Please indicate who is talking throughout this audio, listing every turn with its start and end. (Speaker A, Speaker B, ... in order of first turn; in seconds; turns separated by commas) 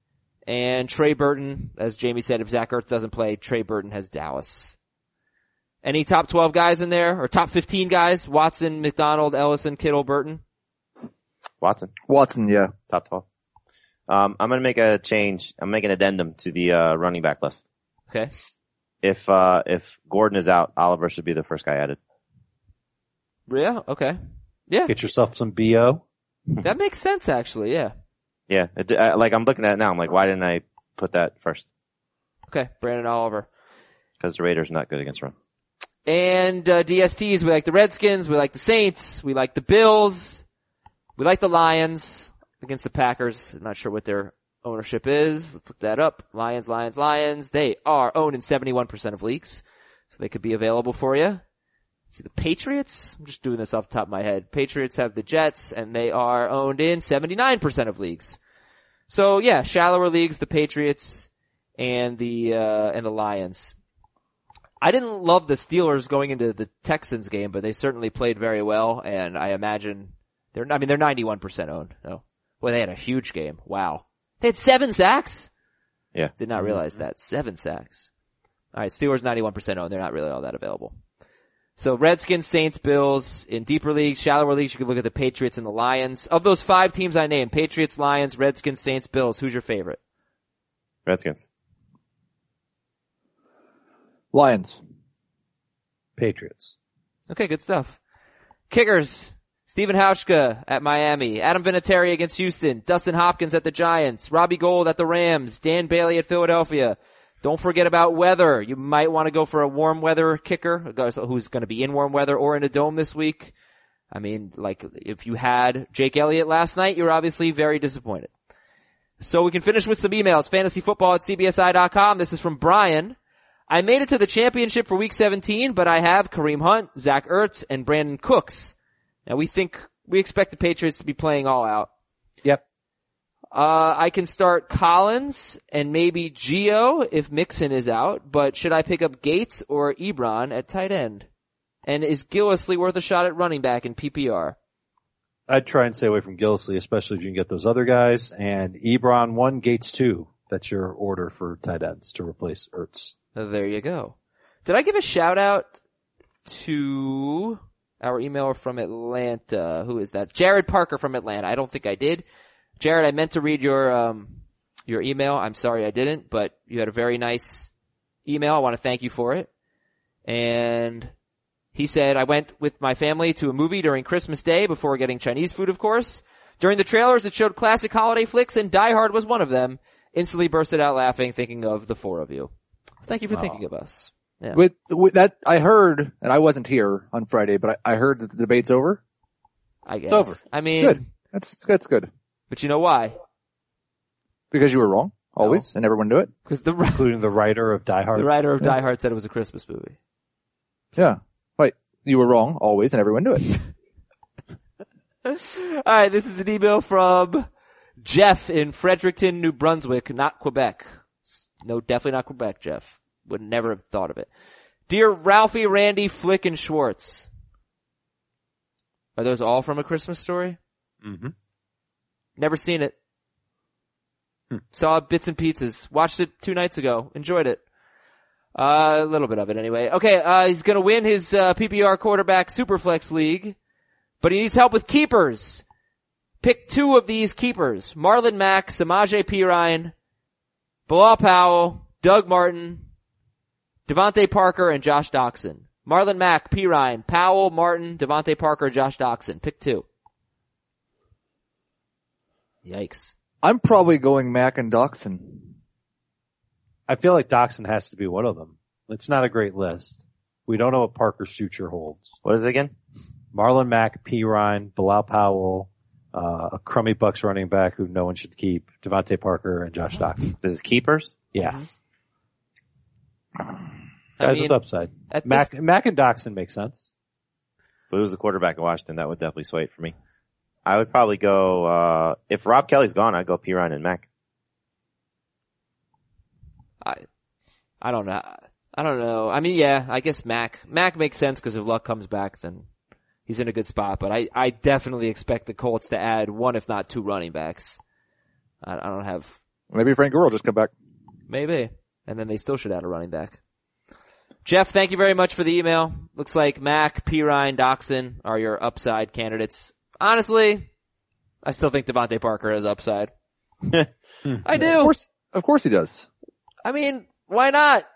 Speaker A: 0.5-4.8, Speaker A: 5.8-10.4, Speaker B: 11.6-11.9, Speaker C: 12.1-12.7, Speaker B: 12.9-13.2, Speaker B: 14.1-17.6, Speaker B: 19.0-22.0, Speaker A: 23.5-24.9, Speaker D: 24.9-26.0, Speaker A: 26.6-27.9, Speaker B: 28.5-31.7, Speaker A: 32.5-33.5, Speaker B: 34.2-35.3, Speaker A: 36.1-40.4, Speaker A: 41.2-51.4, Speaker A: 52.1-58.4, Speaker A: 59.1-63.7, Speaker A: 64.8-75.5, Speaker A: 76.4-78.1, Speaker D: 76.6-76.9, Speaker A: 78.7-81.0, Speaker A: 81.8-90.0, Speaker B: 91.1-91.4, Speaker C: 94.3-94.8, Speaker D: 96.2-96.7, Speaker A: 97.3-98.0, Speaker A: 98.7-113.5, Speaker A: 114.1-118.3, Speaker A: 119.2-123.2, Speaker A: 123.7-128.7, Speaker A: 129.3-131.9, Speaker A: 133.5-141.3, Speaker A: 141.8-144.6, Speaker D: 145.5-153.1, Speaker A: 153.4-155.8, Speaker A: 156.4-162.2, Speaker A: 162.8-167.7, Speaker A: 168.3-169.5, Speaker A: 170.3-171.1, Speaker A: 171.7-182.5, Speaker A: 183.0-184.6, Speaker D: 183.3-183.6, Speaker C: 184.5-189.0, Speaker A: 189.9-191.1, Speaker D: 190.1-190.4, Speaker C: 190.8-192.1, Speaker A: 192.5-193.2, Speaker C: 194.5-196.3, Speaker A: 196.5-197.1, Speaker D: 196.9-198.3, Speaker A: 198.2-200.0, Speaker C: 200.9-203.6, Speaker A: 205.2-207.5, Speaker A: 208.0-214.3, Speaker A: 214.9-217.3, Speaker A: 219.2-220.6, Speaker D: 221.0-221.3, Speaker A: 222.4-222.9, Speaker A: 224.7-227.6, Speaker A: 228.6-233.6, Speaker A: 234.2-235.6, Speaker A: 236.4-239.9, Speaker A: 240.9-242.9, Speaker A: 243.9-249.9, Speaker A: 252.7-253.1, Speaker C: 253.4-255.5, Speaker D: 256.9-262.1, Speaker B: 262.2-262.7, Speaker D: 263.3-270.3, Speaker B: 270.4-271.1, Speaker D: 271.3-271.7, Speaker A: 274.2-274.6, Speaker D: 274.2-276.9, Speaker A: 275.1-275.5, Speaker B: 277.9-279.9, Speaker B: 280.7-284.1, Speaker A: 287.8-292.7, Speaker A: 293.3-297.8, Speaker A: 298.6-299.4, Speaker C: 299.7-300.7, Speaker A: 301.3-303.4, Speaker A: 304.4-310.7, Speaker A: 311.4-313.1, Speaker A: 314.4-315.0, Speaker C: 314.6-316.1, Speaker A: 316.6-317.9